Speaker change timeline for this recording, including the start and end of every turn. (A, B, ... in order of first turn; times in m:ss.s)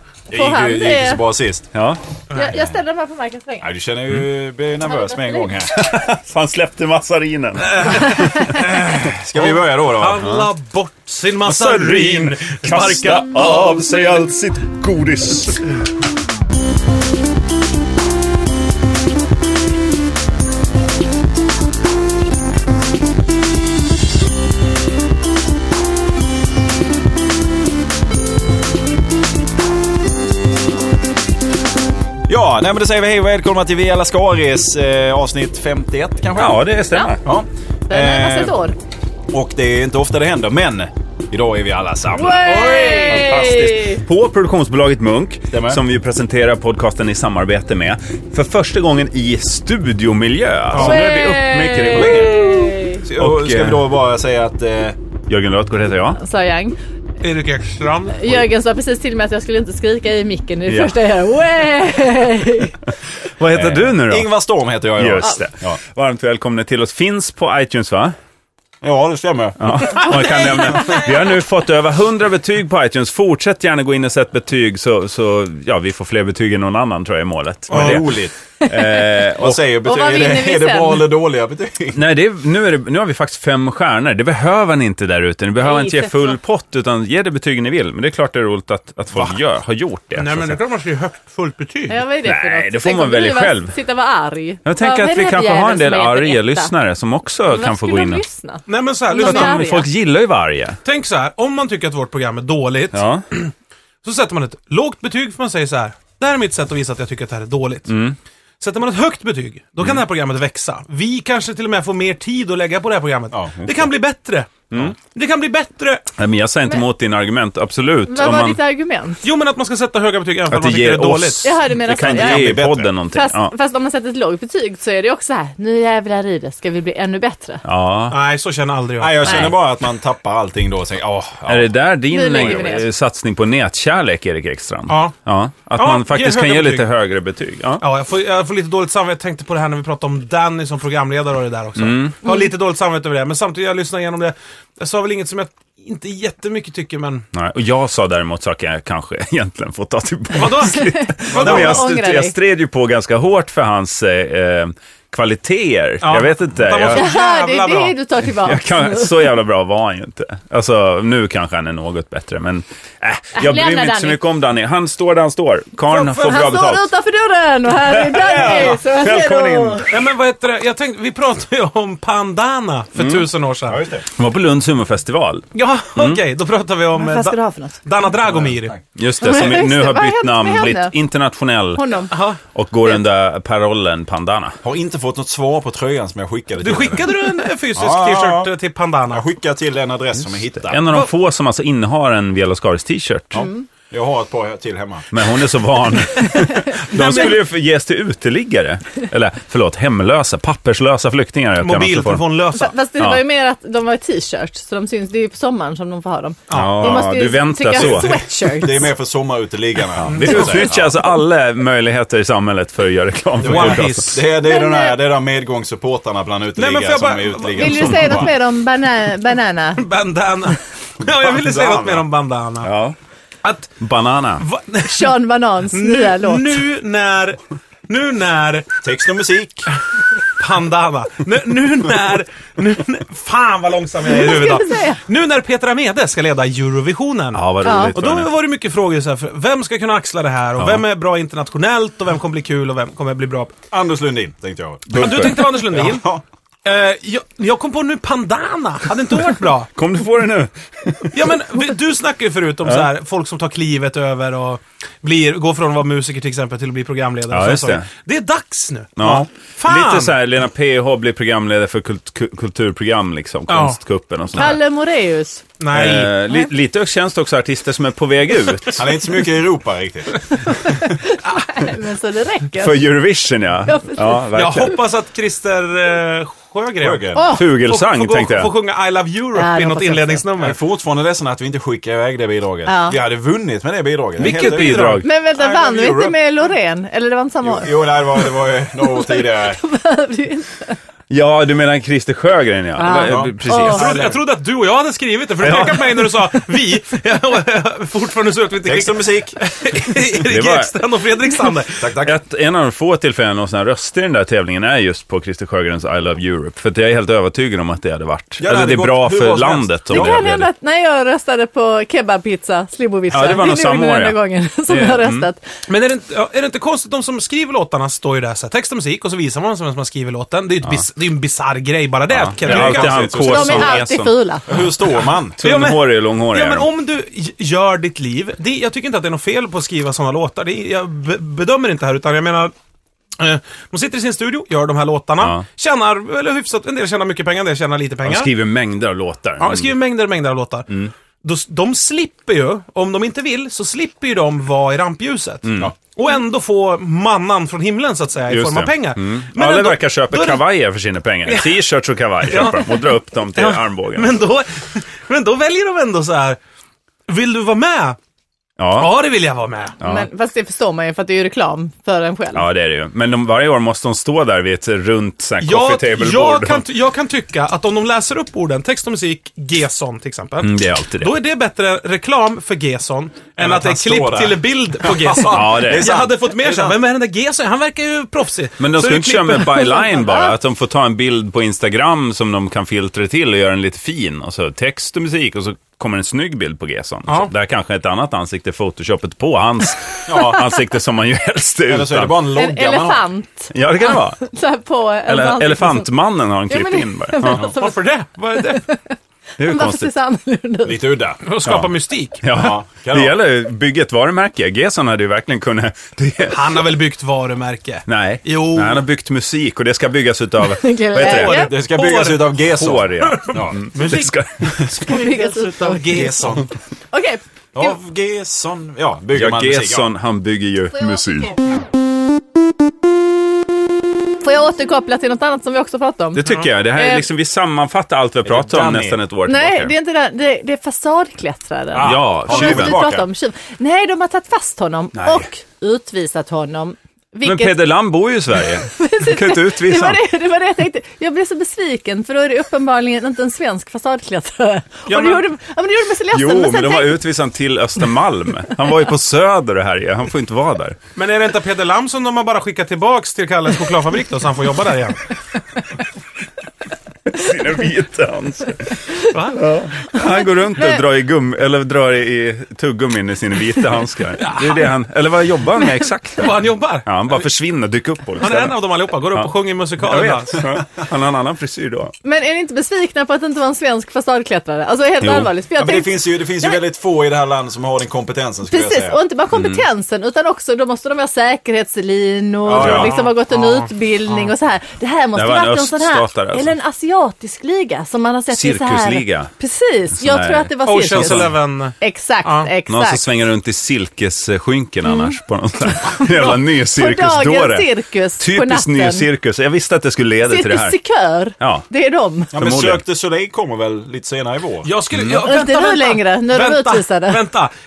0:00.3-0:01.7 A
0:00.3-0:01.2 B
0:01.7-0:02.0 C
0:02.3-0:03.7 B
0:03.6-0:05.8 A
0:04.8-0:05.5 B
0:05.7-0:08.5 C
0:07.6-0:08.2 D
0:08.1-0:08.6 B
0:08.5-0:10.2 A
0:09.4-0:13.6 D
0:10.2-0:10.5 C
0:11.4-0:15.7 C
0:32.3-0:36.7 A
0:36.3-0:37.2 C
0:37.2-0:38.6 A
0:37.9-0:38.8 B
0:39.3-0:43.5 A
0:42.1-0:44.0 B
0:42.8-0:52.6 C
0:45.5-0:45.8 A
0:50.7-0:51.0 D
0:50.8-0:53.0 B
0:50.8-0:51.1 A
0:51.9-0:55.0 A
0:53.2-0:53.9 C
0:55.3-0:56.2 C
0:56.2-0:56.8 B
0:57.2-0:58.3 D
0:58.1-1:02.8 B
1:00.7-1:01.0 C
1:03.4-1:04.3 C
1:03.5-1:05.8 A
1:05.0-1:08.1 C
1:08.8-1:10.3 A
1:09.6-1:19.6 C
1:10.0-1:11.4 B
1:17.7-1:18.3 A
1:18.6-1:19.2 B
1:19.4-1:22.0 A
1:19.8-1:21.1 B
1:21.9-1:30.6 C
1:25.6-1:26.4 B
1:30.1-1:32.0 D
1:31.9-1:36.7 B
1:32.2-1:33.8 C
1:34.6-1:38.2 C
1:37.5-1:39.9 B
1:38.7-1:39.6 D
1:39.2-1:40.8 C
1:40.8-1:47.9 D
1:42.9-1:43.2 C
1:47.9-1:48.2 C
1:48.6-1:56.1 D
1:53.3-1:53.8 A
1:56.2-1:58.6 C
1:58.0-1:59.2 B
1:59.2-2:01.5 D
2:00.5-2:03.5 C
2:01.4-2:07.6 B
2:02.0-2:02.9 A
2:07.6-2:08.2 C
2:08.1-2:09.5 D
2:09.0-2:11.7 A
2:09.2-2:09.5 B
2:11.5-2:17.8 C
2:12.1-2:12.9 B
2:14.9-2:15.1 D
2:15.8-2:16.9 D
2:17.8-2:27.2 D
2:21.8-2:22.1 C
2:22.2-2:22.5 B
2:27.3-2:37.0 C
2:30.3-2:31.8 D
2:30.7-2:32.3 B
2:31.4-2:31.8 A
2:36.0-2:38.0 D
2:36.8-2:39.2 B
2:38.4-2:46.9 C
2:43.4-2:44.2 B
2:45.9-2:49.9 B
2:47.8-2:49.9 C
2:48.3-2:48.7 D
2:49.9-2:53.8 D
2:53.0-2:53.3 C
2:53.7-2:54.0 A
2:54.2-2:56.2 C
2:55.5-2:58.8 D
2:57.0-2:57.8 B
2:58.3-2:58.8 A
2:59.0-3:01.8 C
2:59.2-3:00.9 B
3:01.8-3:02.1 B
3:02.1-3:02.4 D
3:02.5-3:04.5 C
3:04.6-3:07.2 A
3:06.6-3:09.2 D
3:07.7-3:08.5 A
3:09.1-3:10.8 A
3:10.7-3:13.5 C
3:13.3-3:13.6 B
3:13.4-3:15.1 A
3:15.1-3:22.2 C
3:16.3-3:17.3 B
3:17.0-3:17.3 D
3:21.6-3:22.7 D
3:22.5-3:28.9 B
3:26.5-3:27.0 D
3:26.5-3:28.2 C
3:27.7-3:31.0 A
3:30.1-3:34.2 C
3:30.1-3:30.4 D
3:33.4-3:38.3 A
3:33.4-3:34.2 D
3:34.4-3:35.0 B
3:36.6-3:38.1 D
3:37.5-3:39.8 B
3:39.8-3:42.7 D
3:41.2-3:42.0 A
3:42.6-3:42.9 C
3:43.4-3:43.7 D
3:43.8-3:44.4 C
3:44.4-3:45.2 D
3:44.8-3:46.6 B
3:45.7-3:48.7 D
3:48.8-3:49.7 A
3:50.4-4:03.5 D
3:54.0-3:55.0 B
3:57.3-3:58.3 C
3:57.6-3:58.0 B
4:03.7-4:06.2 A
4:04.9-4:05.3 C
4:05.0-4:06.1 D
4:06.6-4:09.7 D
4:09.8-4:11.3 C
4:11.1-4:20.1 D
4:17.3-4:17.9 C
4:19.0-4:24.6 C
4:23.5-4:23.8 D
4:24.3-4:25.4 B
4:25.6-4:26.1 D
4:25.7-4:28.9 C
4:28.7-4:30.5 A
4:30.8-4:32.8 B
4:32.6-4:34.8 C
4:33.7-4:34.2 B
4:34.3-4:40.6 D
4:36.8-4:37.3 A
4:37.1-4:37.5 B
4:37.3-4:38.5 C
4:39.3-4:40.2 B
4:40.4-4:46.2 A
4:42.6-4:43.0 B
4:44.2-4:45.1 C
4:44.2-4:45.0 D
4:45.0-4:50.8 B
4:47.4-4:49.6 A
4:51.1-4:54.1 C
4:52.8-4:53.9 B
4:53.0-4:53.3 A
4:53.6-5:01.8 D
4:55.4-4:56.0 C
4:58.6-4:59.4 A
5:00.3-5:00.7 C
5:01.8-5:02.2 A
5:02.0-5:10.5 C
5:08.4-5:10.3 A
5:09.9-5:15.4 B
5:13.1-5:14.2 C
5:14.7-5:15.3 C
5:15.7-5:23.1 D
5:22.1-5:24.1 C
5:22.4-5:23.8 A
5:23.1-5:24.6 B
5:24.5-5:25.4 A
5:25.4-5:32.5 D
5:25.4-5:26.7 C
5:33.2-5:38.3 D
5:38.0-5:39.7 C
5:39.4-5:40.7 D
5:41.2-5:50.4 D
5:45.4-5:45.7 C
5:48.3-5:54.2 C
5:51.3-5:51.6 D
5:52.3-5:56.4 D
5:57.1-5:58.0 D
5:58.6-5:59.0 C
5:58.8-5:59.8 D
5:59.8-6:00.1 C
5:59.8-6:02.5 B
6:02.3-6:06.6 C
6:05.4-6:19.8 D
6:10.4-6:11.2 C
6:13.4-6:16.8 A
6:15.2-6:15.9 C
6:18.6-6:32.3 C
6:19.9-6:20.3 B
6:30.1-6:30.4 A
6:31.7-6:33.0 A
6:32.3-6:35.9 B
6:33.5-6:34.3 C
6:35.1-6:37.5 C
6:36.5-6:37.8 B
6:37.6-6:38.6 D
6:38.3-6:40.9 B
6:39.4-6:39.9 C
6:40.6-6:41.2 A
6:41.2-6:42.2 D
6:42.2-6:46.6 C
6:42.3-6:43.2 A
6:46.3-6:48.8 D
6:47.9-6:51.4 C
6:50.4-6:51.5 B
6:50.9-6:52.3 D
6:51.3-6:53.6 A
6:52.4-6:55.1 C
6:53.0-6:56.4 D
6:54.8-6:56.2 B
6:55.8-6:56.5 A
6:56.9-6:57.8 B
6:57.5-6:59.9 A
6:59.1-7:01.4 C
7:04.2-7:07.0 B
7:06.1-7:09.7 C
7:08.2-7:09.0 A
7:09.2-7:17.8 B
7:11.8-7:12.8 C
7:11.9-7:13.1 A
7:14.9-7:15.3 C
7:17.2-7:20.0 C
7:18.6-7:27.0 B
7:24.9-7:25.2 D
7:26.1-7:30.8 C
7:31.0-7:35.0 D
7:37.1-7:48.6 C
7:39.1-7:39.5 D
7:39.9-7:40.8 B
7:44.2-7:44.7 D
7:46.2-7:46.9 D
7:48.2-7:50.4 D
7:49.1-7:51.9 C
7:52.0-7:56.6 B
7:55.0-7:55.3 C
7:55.6-7:59.0 A
7:58.5-8:13.0 B
7:59.3-7:59.6 C
8:02.4-8:02.9 A
8:02.5-8:02.9 C
8:02.6-8:04.3 D
8:05.1-8:06.5 C
8:08.3-8:09.3 C
8:10.0-8:11.3 C
8:10.6-8:12.5 D
8:12.7-8:20.8 C
8:14.9-8:15.1 B
8:15.9-8:16.4 D
8:16.8-8:19.1 B
8:20.3-8:22.3 B
8:21.4-8:21.7 C
8:22.3-8:24.7 A
8:22.3-8:22.8 C
8:24.6-8:27.5 D
8:24.9-8:25.3 C
8:25.1-8:27.2 B